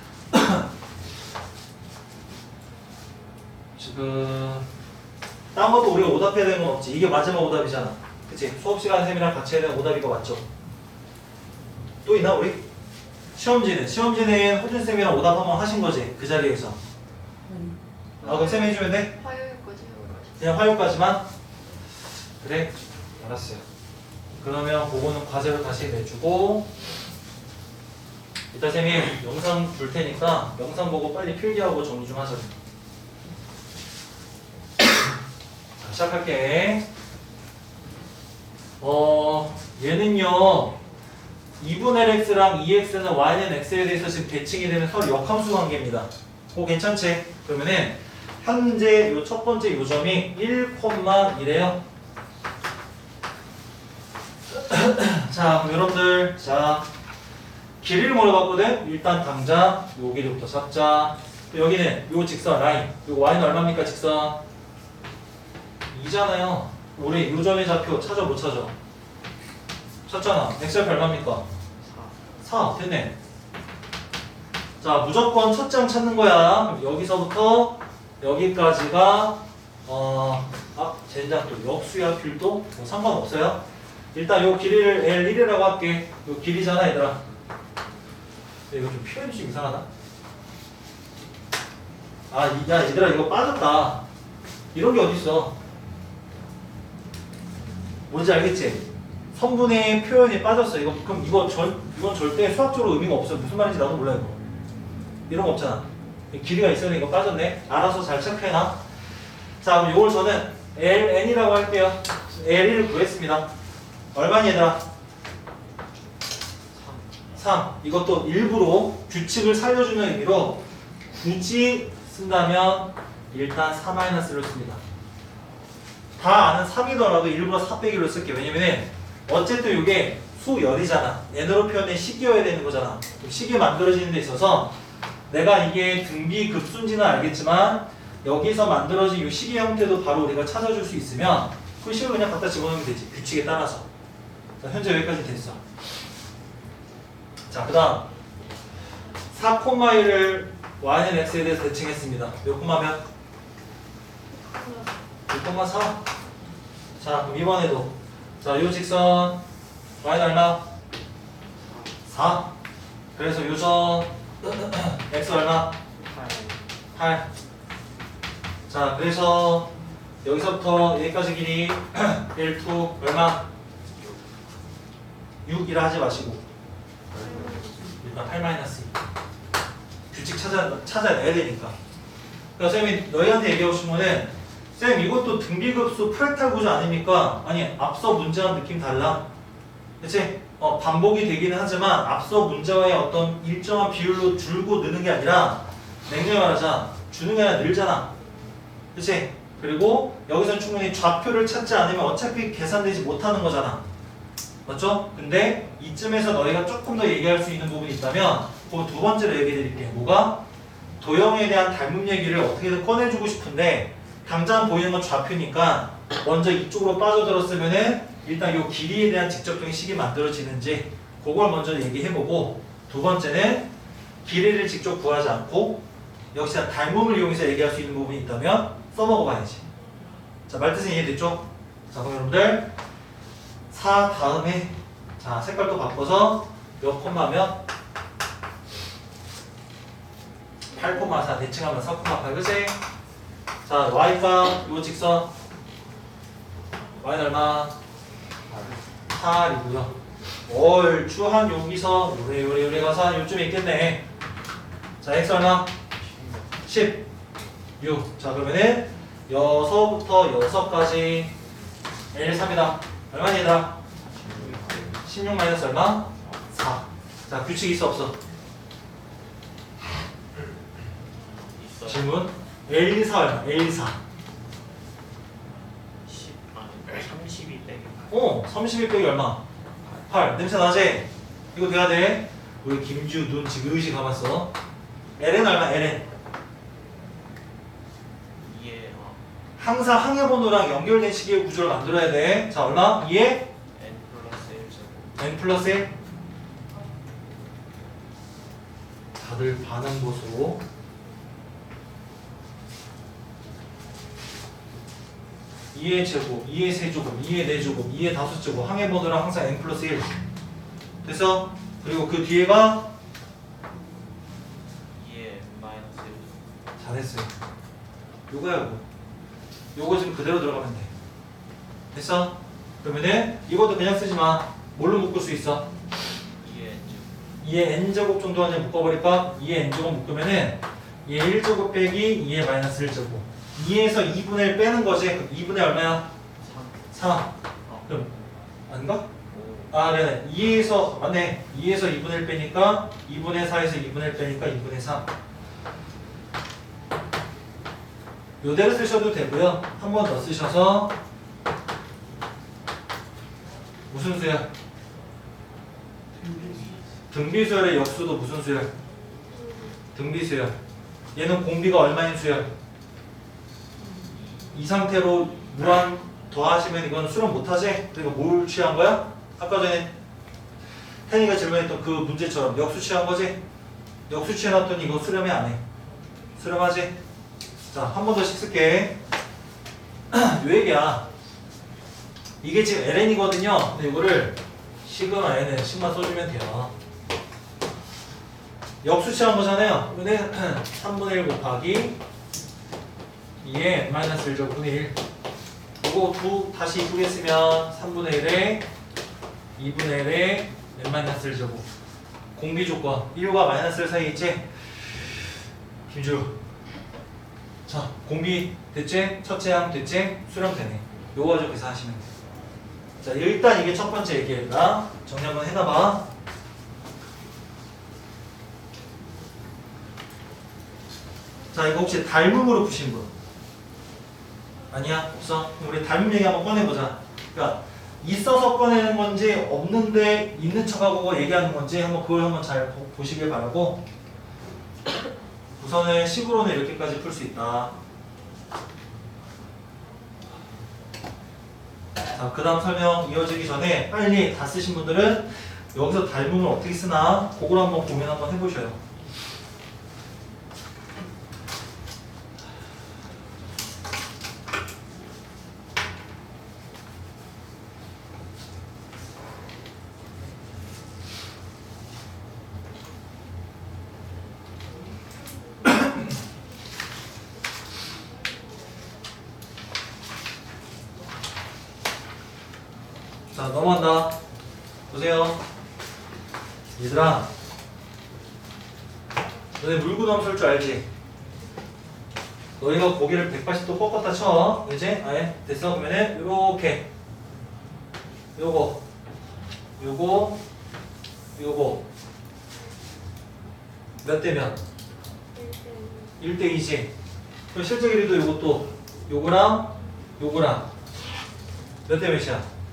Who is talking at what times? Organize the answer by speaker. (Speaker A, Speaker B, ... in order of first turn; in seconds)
Speaker A: 0.3-0.7, 3.8-4.7, 5.5-10.4, 12.1-12.7, 13.4-16.8, 18.2-19.2, 20.4-21.3, 22.4-23.6, 24.4-26.7, 28.5-32.5, 35.8-36.9, 38.8-40.8, 41.6-51.8, 54.5-56.9, 57.8-64.4, 65.9-68.8, 70.1-71.4, 72.4-73.1, 74.8-83.6, 84.1-87.2, 88.7-89.8, 92.3-94.0, 94.7-95.5, 98.1-104.4, 105.3-108.8, 109.6-113.5, 114.1-114.8, 117.4-124.8, 126.2-134.8, 135.3-143.9, 144.6-145.6, 147.5-148.1, 149.3-153.0, 155.3-156.0, 157.0-159.4, 160.0-160.7, 162.1-162.5, 163.2-165.8, 166.9-167.3, 168.7-169.7, 170.2-173.5, 175.4-176.4, 178.0-178.9, 180.1-181.8, 182.6-189.3, 190.0-198.1, 198.9-203.8, 204.7-210.4, 211.0-223.7, 224.2-225.8, 226.3-229.6, 230.5-232.7, 233.7-237.6, 240.7-242.8, 243.7-245.3, 247.0-247.8, 249.1-249.9, 250.5-254.0, 255.0-255.7, 256.6-257.1, 257.8-261.3, 262.1-263.8, 265.0-268.2, 271.9-274.0, 278.1-279.4, 280.1-284.5, 285.2-286.1, 289.6-293.5, 295.2-295.9, 299.2-300.6, 305.7-310.1, 311.1-312.9, 316.8-317.3, 318.3-318.9, 319.8-320.9, 321.9-325.7, 327.4-336.1, 336.9-337.3, 337.9-338.1, 338.7-339.1, 339.7-345.1, 348.4-350.9, 353.9-354.5, 357.1-358.7, 359.9-360.5, 361.1-362.5, 364.5-369.9, 371.1-373.4, 374.1-375.6, 376.4-376.9, 377.7-379.0, 380.1-381.1, 382.4-386.7, 388.8-392.0, 393.4-395.0, 395.8-398.6, 399.6-401.7, 402.4-404.4, 405.9-406.4, 407.7-412.1, 413.0-416.1, 421.5-423.1, 424.7-433.8, 435.6-437.7, 442.1-448.8, 473.3-474.1, 474.9-475.4, 476.8-477.3, 479.6-480.9, 482.6-486.9, 488.4-488.8, 489.8-490.4, 491.4-491.9, 494.0-494.6, 496.2-496.9, 497.5-500.7, 501.9-502.5
Speaker B: 18.3-20.4, 154.5-154.9, 177.3-177.7, 359.3-359.7, 495.4-496.2
Speaker C: 116.8-117.2, 166.1-166.5, 174.0-174.5, 177.1-177.7, 248.5-248.8, 264.2-265.0, 271.3-272.2, 276.1-278.1, 288.4-289.2, 293.7-295.2, 314.9-316.5, 326.4-327.2, 336.4-336.9, 339.3-339.7, 356.2-356.7